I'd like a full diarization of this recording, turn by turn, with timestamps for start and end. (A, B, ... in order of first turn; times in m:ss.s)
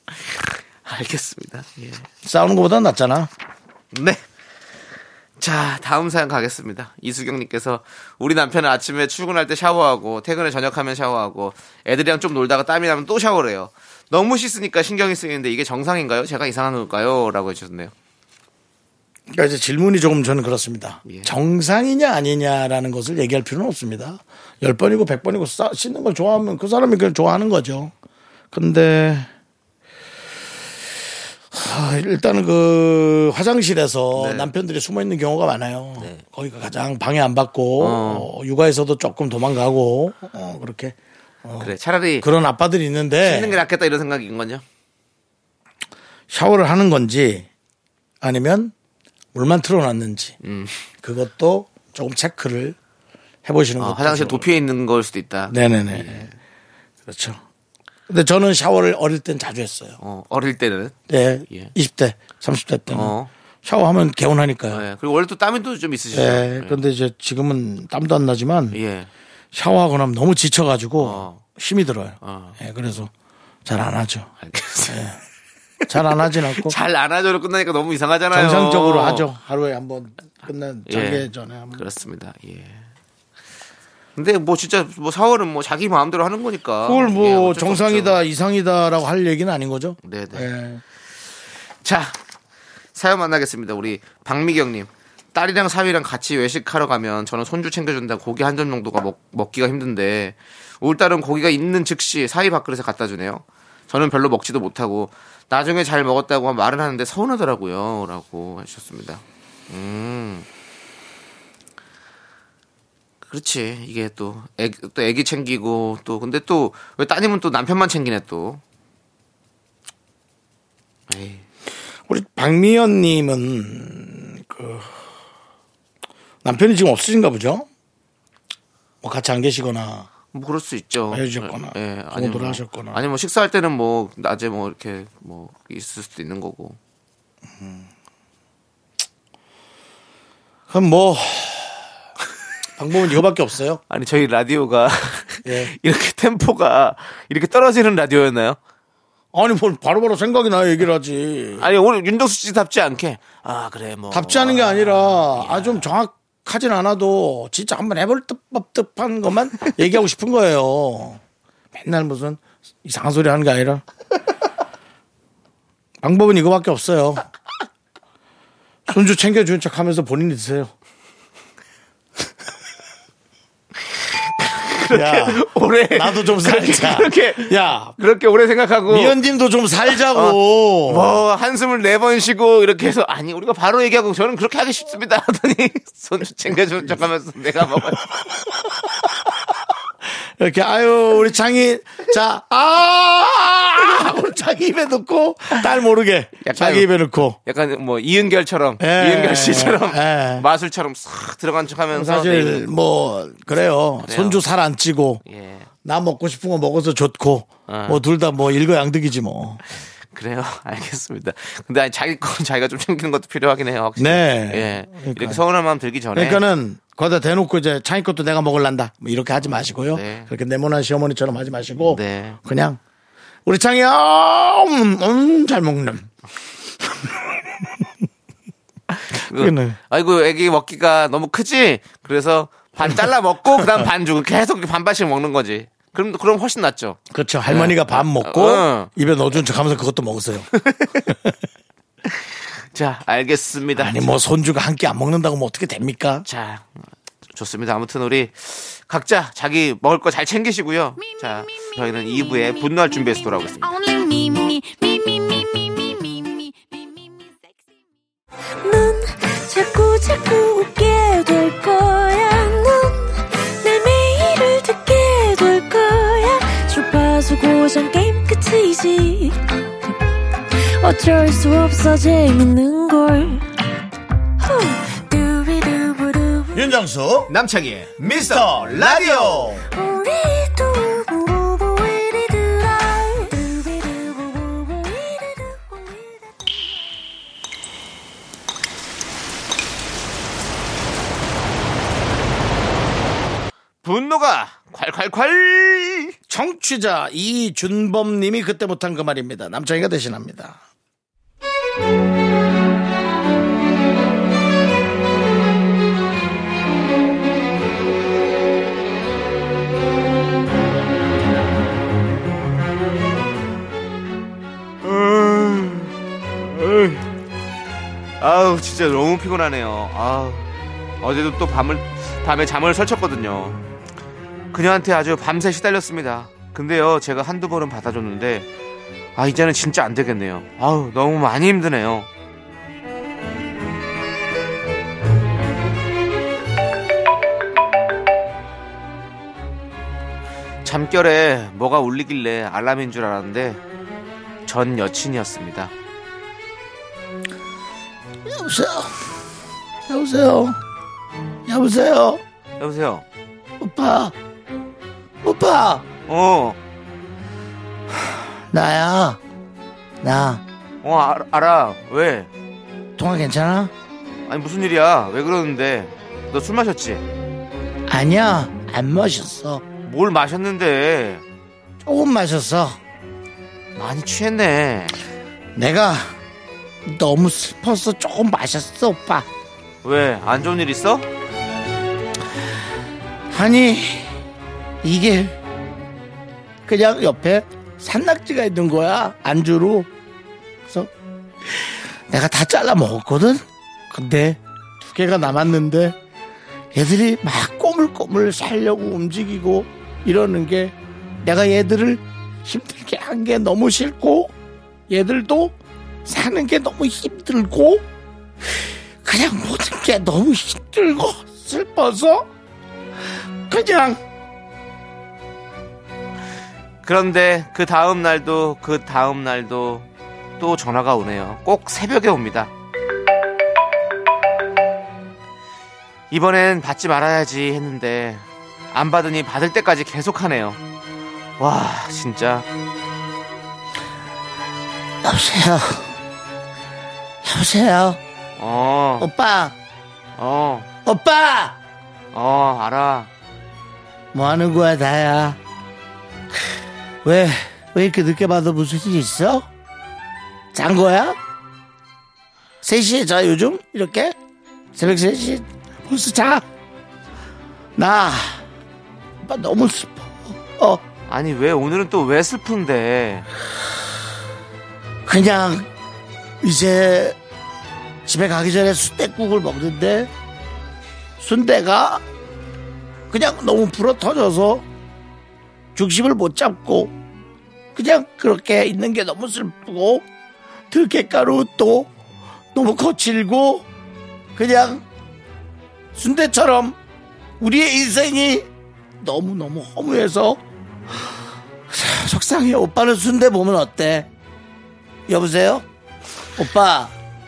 0:00.8-0:02.0 A
0:02.2-0:03.3 B
0:03.9-0:04.2 A
0:05.4-0:17.9 A
0:19.3-0:27.9 B
0:21.0-0:21.3 A
0:28.5-0:29.3 B
0:31.5-0:43.6 B
0:34.1-0:34.5 A
0:36.0-0:36.2 A
0:37.8-0:38.3 A
0:41.6-0:42.2 A
0:43.2-0:44.6 A
0:46.3-0:47.5 B
0:48.2-0:48.7 B
0:49.3-0:50.4 B
0:50.4-0:50.8 A
0:51.0-0:52.8 B
0:53.4-0:54.5 B
0:53.8-0:56.4 A
0:55.5-0:56.3 B
0:57.0-0:57.4 B
0:58.1-1:00.0 B
1:00.0-1:00.9 A
1:01.1-1:04.8 B
1:02.9-1:03.3 A
1:04.7-1:06.8 A
1:06.1-1:08.8 B
1:08.7-1:09.1 A
1:09.5-1:13.1 B
1:11.0-1:11.4 A
1:12.2-1:12.6 A
1:13.6-1:14.3 B
1:14.4-1:15.0 A
1:14.9-1:15.2 B
1:15.8-1:19.3 A
1:15.9-1:16.7 B
1:18.3-1:21.8 B
1:20.9-1:22.8 A
1:24.2-1:28.2 A
1:26.8-1:30.8 B
1:30.0-1:30.5 A
1:31.8-1:32.2 A
1:32.9-1:50.4 A
1:53.3-1:58.6 A
2:01.1-2:01.4 A
2:02.1-2:04.9 B
2:06.4-2:07.7 B
2:09.0-2:10.1 B
2:10.3-2:16.8 A
2:11.1-2:13.0 B
2:17.6-2:17.9 B
2:20.7-2:21.8 B
2:22.8-2:23.8 B
2:23.9-2:28.6 A
2:25.4-2:25.7 B
2:29.3-2:31.7 B
2:31.6-2:35.9 A
2:34.1-2:41.2 B
2:41.7-2:43.8 B
2:46.0-2:47.2 B
2:48.9-2:50.7 B
2:53.9-2:59.2 A
2:54.9-2:58.0 B
2:58.9-3:01.2 B
2:59.9-3:08.0 A
3:08.1-3:09.1 B
3:10.4-3:17.4 B
3:16.4-3:16.9 A
3:17.4-3:22.7 A
3:18.8-3:20.5 B
3:21.9-3:25.2 B
3:24.0-3:24.4 A
3:25.2-3:25.7 A
3:25.8-3:29.6 B
3:27.7-3:28.0 A
3:30.1-3:36.4 A
3:34.0-3:35.4 B
3:36.1-3:42.8 B
3:39.4-3:40.3 A
3:41.8-3:42.4 A
3:43.4-3:46.1 B
3:48.9-3:58.9 A
3:49.2-3:49.8 B
3:57.1-4:00.5 B
4:00.5-4:01.1 A
4:01.1-4:01.3 B
4:02.0-4:04.1 A
4:03.7-4:06.2 B
4:06.2-4:06.7 A
4:07.3-4:13.7 A
4:11.0-4:12.7 C
4:13.6-4:17.8 C
4:18.6-4:29.9 C
4:30.6-4:33.5 C
4:34.4-4:36.7 C
4:36.5-4:37.3 B
4:37.3-4:39.6 A
4:38.0-4:39.6 B
4:39.7-4:46.6 C
4:53.8-4:56.1 A
4:56.3-5:00.6 B
5:14.8-5:15.9 A
5:16.5-5:17.0 A
5:18.2-5:20.5 A
5:21.0-5:23.6 A
5:24.5-5:28.5 A
5:29.2-5:32.1 A
5:40.6-5:43.6 A
5:44.4-5:45.7 A
5:48.2-5:49.2 B
5:49.9-5:50.6 B
5:51.5-5:52.2 B
5:52.6-5:53.0 A
5:53.6-5:54.1 B
5:55.2-5:55.8 B
5:56.1-5:56.6 A
5:58.0-5:59.2 B
6:00.0-6:00.4 B
6:00.8-6:02.3 A
6:03.0-6:03.7 B
6:04.3-6:07.0 A
6:07.9-6:09.6 B
6:09.8-6:11.2 A
6:11.8-6:12.8 B
6:13.8-6:15.0 A
6:15.6-6:16.1 B
6:16.8-6:19.3 B
6:19.8-6:21.0 A
6:23.3-6:24.2 B
6:24.8-6:25.4 B
6:26.6-6:29.9 B
6:31.5-6:36.0 B
6:36.7-6:44.3 B
6:44.9-6:47.8 B
6:49.0-6:52.3 B
6:53.5-6:54.0 B
6:56.8-6:59.8 A
7:00.4-7:02.5 A
7:06.1-7:10.6 A
7:11.4-7:12.4 A
7:15.0-7:15.9 B
7:17.2-7:18.0 B
7:18.4-7:19.1 A
7:19.0-7:19.5 B
7:20.2-7:20.7 A
7:20.8-7:21.6 B
7:22.1-7:23.1 A
7:24.1-7:25.4 B
7:27.0-7:29.5 B
7:30.5-7:31.2 B
7:32.6-7:34.1 B
7:34.7-7:36.4 B
7:37.8-7:38.4 B
7:39.2-7:40.8 B
7:41.1-7:43.3 A
7:45.0-7:45.7 B
7:46.4-7:47.2 B
7:48.0-7:50.1 B
7:51.2-7:52.0 B
7:53.1-7:54.6 B
7:55.7-7:56.9 B
7:57.7-8:00.0 B
8:00.7-8:01.9 B
8:02.5-8:03.7 B
8:04.4-8:04.8 B
8:05.9-8:06.8 B
8:07.4-8:08.5 B
8:09.0-8:10.4 B
8:11.7-8:14.1 B
8:15.1-8:15.6 B
8:16.4-8:16.9 B